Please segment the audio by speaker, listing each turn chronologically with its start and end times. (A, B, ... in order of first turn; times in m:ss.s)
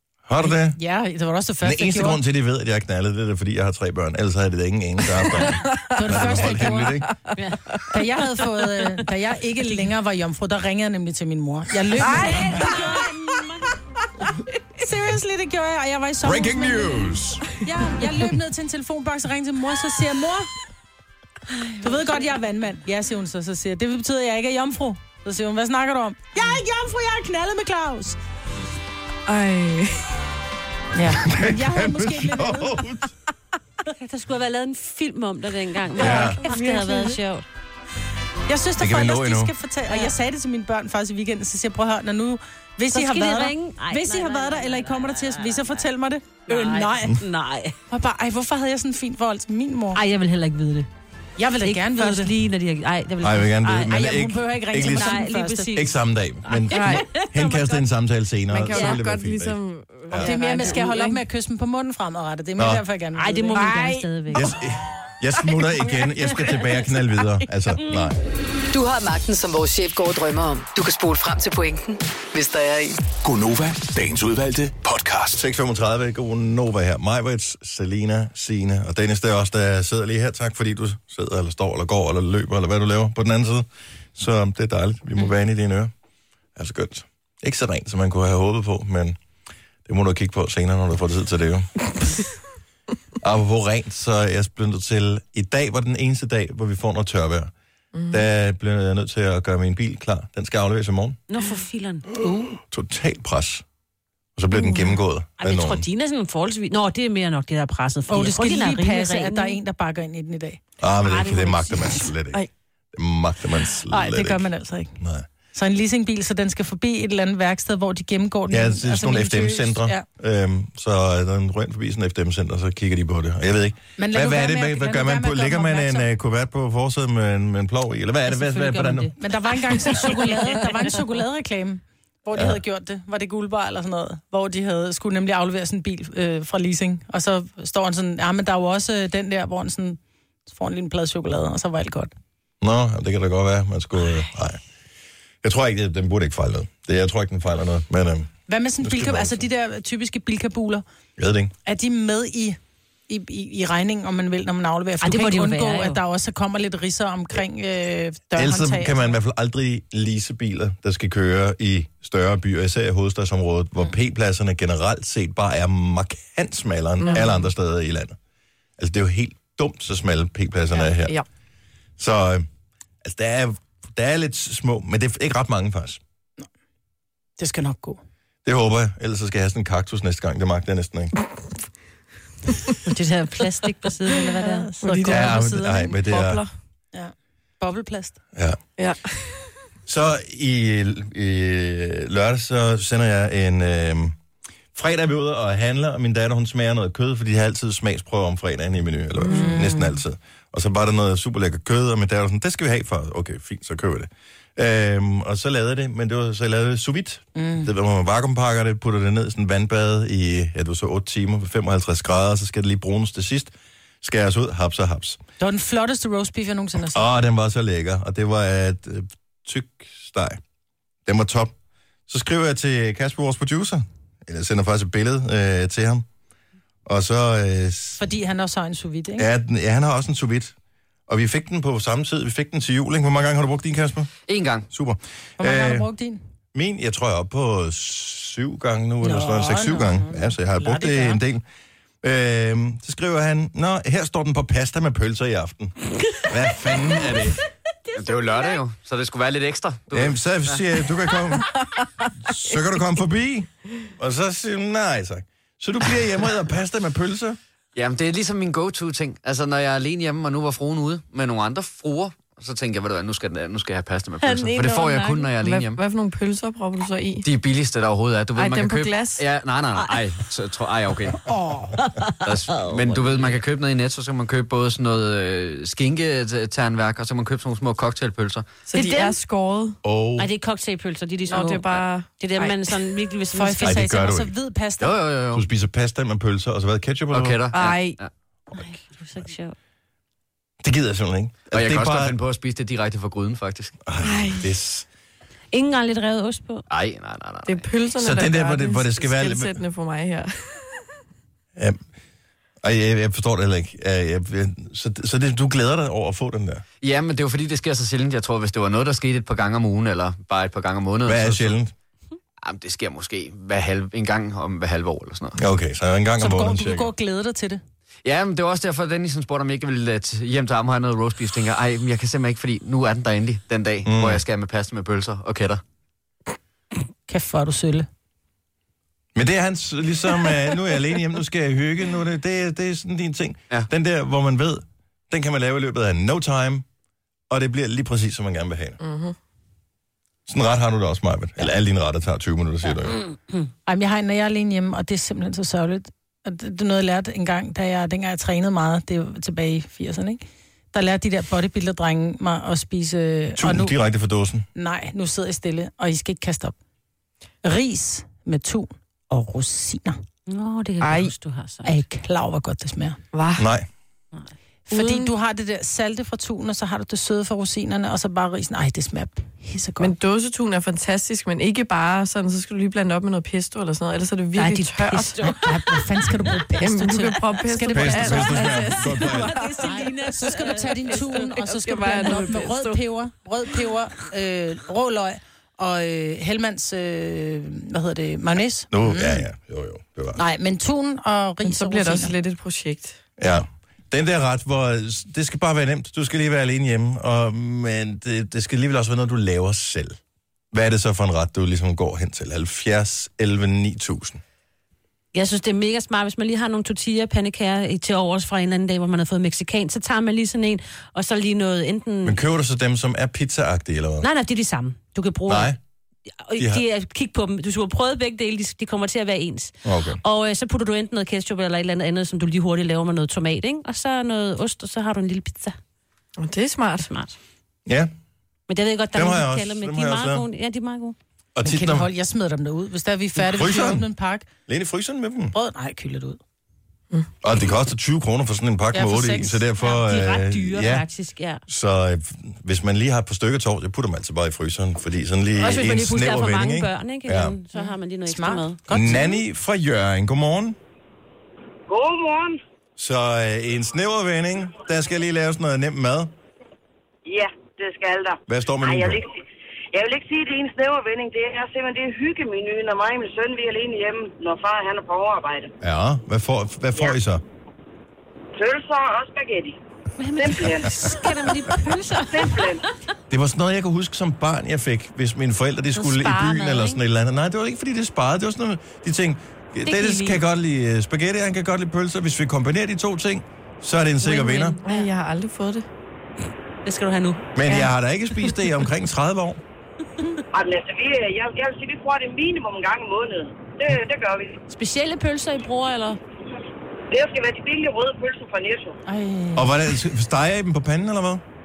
0:00.3-0:00.8 A
0:00.4-0:02.2 B
0:01.6-0:07.1 A
0:05.2-0:07.8 C
0:05.9-0:07.0 B
0:07.9-0:12.9 B
0:12.0-0:13.8 D
0:12.1-0:12.4 C
0:14.8-0:20.5 B
0:16.2-0:17.4 A
0:21.8-0:28.2 B
0:29.3-0:30.1 C
0:30.9-0:32.8 B
0:31.2-0:33.1 A
0:33.9-0:37.4 D
0:35.9-0:37.2 C
0:36.0-0:36.4 A
0:38.5-0:47.2 B
0:38.8-0:39.5 A
0:42.9-0:45.9 D
0:46.5-0:47.7 D
0:47.9-0:50.0 B
0:49.9-0:50.9 D
0:51.4-0:52.3 B
0:51.6-0:53.9 D
0:53.2-0:55.2 A
0:53.9-0:55.8 B
0:54.8-0:57.8 D
0:55.7-1:00.3 A
0:56.7-0:57.1 C
0:58.5-1:01.2 C
0:58.7-0:59.0 D
1:00.2-1:03.8 B
1:02.6-1:02.8 A
1:03.1-1:04.5 D
1:03.5-1:04.4 C
1:04.3-1:08.2 A
1:07.8-1:08.1 D
1:08.7-1:13.0 E
1:13.2-1:15.4 F
1:15.3-1:25.9 A
1:26.6-1:29.2 A
1:29.8-1:31.7 A
1:33.2-1:37.5 A
1:37.9-1:38.2 C
1:38.1-1:41.2 A
1:41.3-1:42.2 D
1:42.5-1:43.6 A
1:44.4-1:45.8 A
1:45.4-1:49.6 D
1:48.1-1:50.6 B
1:50.8-1:54.5 A
1:51.0-1:52.0 D
1:53.9-1:55.0 B
1:55.0-1:55.3 A
1:55.5-2:00.0 B
1:58.5-2:09.1 A
2:04.0-2:06.1 B
2:08.3-2:09.1 D
2:09.2-2:22.1 B
2:09.7-2:10.9 D
2:22.6-2:24.6 A
2:25.4-2:29.4 A
2:28.5-2:30.8 B
2:31.2-2:31.5 A
2:31.6-2:32.6 B
2:33.1-2:39.1 B
2:35.0-2:36.0 D
2:38.3-2:48.2 A
2:47.0-2:47.4 C
2:48.8-2:51.2 A
2:50.7-2:51.2 C
2:52.0-2:52.5 A
2:53.0-2:56.0 A
2:57.4-2:58.0 B
2:58.4-3:01.1 A
3:02.8-3:04.8 D
3:04.2-3:05.9 B
3:04.8-3:06.5 C
3:05.1-3:06.4 A
3:06.9-3:08.2 B
3:08.8-3:09.5 C
3:09.8-3:14.2 A
3:14.7-3:35.2 A
3:19.2-3:19.8 C
3:19.3-3:19.9 B
3:27.3-3:27.7 B
3:35.4-3:37.1 B
3:36.9-3:40.4 A
3:41.0-3:41.5 A
3:42.1-3:46.0 A
3:46.8-3:48.0 A
3:48.0-3:49.3 B
3:49.2-3:50.5 A
3:51.1-3:54.1 A
3:54.2-3:54.7 G
3:54.7-3:55.9 A
3:55.4-3:56.2 B
3:56.5-4:01.4 A
3:59.0-4:01.2 B
4:02.0-4:07.4 A
4:07.9-4:10.6 G
4:08.1-4:08.6 D
4:09.9-4:11.6 A
4:12.2-4:17.4 A
4:17.7-4:25.8 G
4:24.2-4:25.2 D
4:24.3-4:27.3 C
4:27.2-4:31.4 G
4:28.4-4:29.2 C
4:31.8-4:32.8 D
4:32.2-4:38.5 G
4:38.7-4:39.8 C
4:38.7-4:39.2 D
4:39.8-4:40.3 A
4:40.2-4:43.8 D
4:41.3-4:42.6 C
4:43.3-4:45.0 B
4:43.6-4:44.3 A
4:44.8-4:45.5 G
4:45.3-4:47.4 A
4:47.1-4:48.1 G
4:47.5-4:48.0 C
4:48.5-4:49.5 D
4:50.6-4:52.2 A
4:51.5-4:53.8 G
4:53.8-4:54.8 A
4:54.0-4:54.5 C
4:55.5-4:56.6 D
4:56.7-4:57.8 G
4:57.4-5:00.8 C
4:58.0-4:59.6 A
5:01.5-5:01.8 A
5:02.6-5:06.6 A
5:06.8-5:11.6 G
5:11.0-5:11.7 A
5:12.4-5:15.4 G
5:15.4-5:16.9 A
5:16.2-5:17.6 B
5:18.0-5:25.6 G
5:23.8-5:24.2 A
5:27.1-5:27.9 B
5:29.1-5:36.6 A
5:37.3-5:38.8 A
5:38.8-5:39.1 C
5:40.3-5:43.0 A
5:42.9-5:43.5 D
5:43.6-5:53.7 B
5:53.3-5:54.4 A
5:54.5-5:56.6 B
5:57.4-6:00.0 B
6:00.3-6:01.8 D
6:00.8-6:01.1 C
6:01.6-6:03.0 B
6:03.1-6:03.5 C
6:03.4-6:03.7 A
6:04.7-6:05.1 C
6:04.7-6:09.9 B
6:09.8-6:15.3 C
6:14.4-6:15.8 D
6:15.3-6:18.7 B
6:16.6-6:20.3 C
6:17.7-6:19.4 A
6:18.4-6:21.3 D
6:19.6-6:29.2 B
6:20.9-6:22.8 C
6:28.7-6:30.2 A
6:30.2-6:32.1 B
6:31.4-6:33.0 C
6:33.2-6:40.0 A
6:40.5-6:44.2 A
6:45.1-6:52.2 D
6:52.0-6:54.1 A
6:54.0-6:55.6 D
6:55.3-6:55.6 A
6:56.2-7:05.6 D
6:56.4-6:56.6 A
6:59.6-7:00.0 A
7:06.2-7:06.9 C
7:06.8-7:07.1 D
7:07.6-7:07.9 A
7:08.5-7:11.0 D
7:08.9-7:10.2 A
7:11.4-7:11.9 A
7:11.4-7:14.3 B
7:13.2-7:13.9 A
7:14.5-7:15.3 A
7:15.3-7:16.2 B
7:17.2-7:20.8 A
7:18.7-7:19.4 B
7:19.6-7:21.4 D
7:21.5-7:27.4 A
7:25.4-7:29.0 D
7:27.5-7:29.2 B
7:28.7-7:30.6 A
7:31.7-7:32.4 H
7:32.8-7:36.1 A
7:37.0-7:39.2 H
7:38.3-7:39.0 A
7:39.7-7:45.5 H
7:45.6-7:47.2 A
7:48.4-7:49.6 H
7:50.0-7:52.6 D
7:50.2-7:51.1 H
7:51.9-7:52.6 H
7:53.1-8:04.6 A
7:55.7-7:56.8 D
7:59.6-8:00.2 D
8:04.0-8:04.9 D
8:04.6-8:05.6 C
8:06.6-8:07.3 D
8:07.3-8:09.4 A
8:10.3-8:14.4 H
8:14.5-8:16.0 D
8:16.9-8:18.8 H
8:18.8-8:19.5 B
8:19.3-8:21.2 A